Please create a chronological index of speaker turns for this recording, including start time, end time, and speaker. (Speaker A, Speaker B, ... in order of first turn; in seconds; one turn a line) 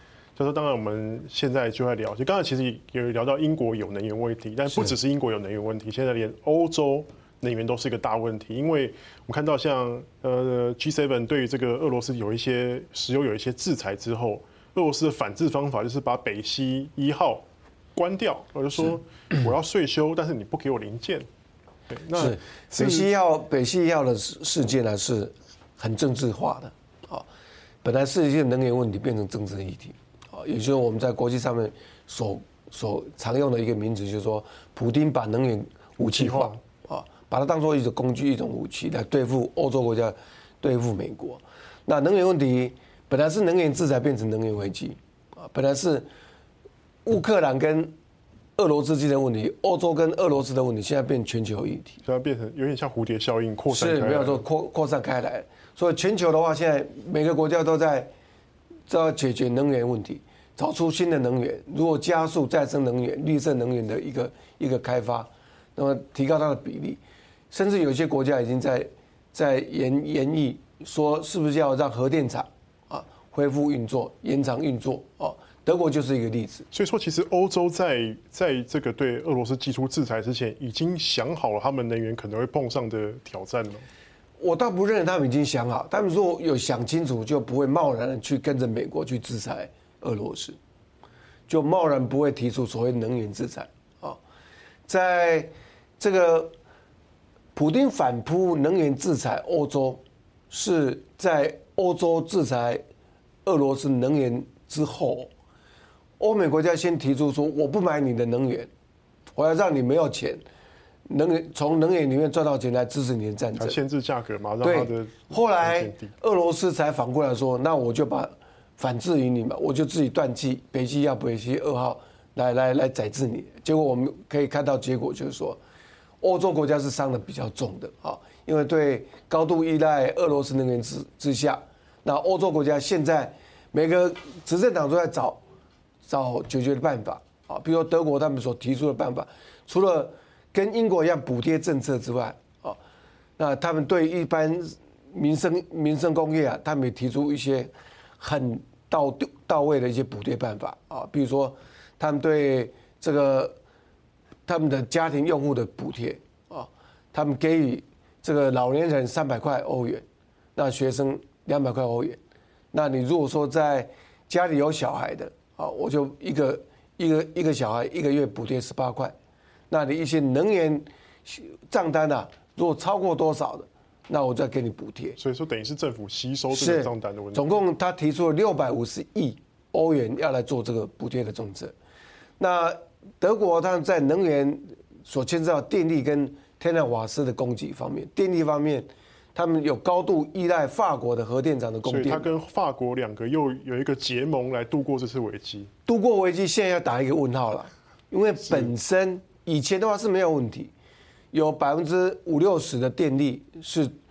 Speaker A: 0.4-17.4
Speaker A: 18.0-21.3
Speaker A: 21.9-23.1
Speaker B: 22.1-27.3
Speaker B: 27.8-46.1
Speaker A: 36.0-36.6
Speaker B: 47.1-47.9
Speaker B: 48.6-52.0
Speaker A: 52.0-54.4
Speaker B: 53.7-58.1
Speaker B: 58.9-67.0
Speaker B: 67.5-76.7
Speaker A: 76.7-83.9
Speaker B: 84.4-90.6
Speaker B: 91.5-94.2
Speaker B: 94.9-96.5
Speaker B: 97.5-102.8
Speaker B: 103.5-105.3
Speaker B: 106.2-108.7
Speaker B: 109.4-110.4
Speaker B: 111.1-113.8
Speaker A: 113.6-116.1
Speaker B: 114.6-125.6
Speaker B: 126.2-135.4
Speaker B: 136.1-142.8
Speaker B: 143.4-153.6
Speaker B: 154.5-160.0
Speaker B: 160.6-162.2
Speaker B: 162.7-169.2
Speaker B: 169.7-175.2
Speaker A: 175.2-177.6
Speaker B: 176.5-181.8
Speaker B: 182.4-192.3
Speaker A: 191.9-195.7
Speaker B: 195.9-200.7
Speaker B: 201.3-203.9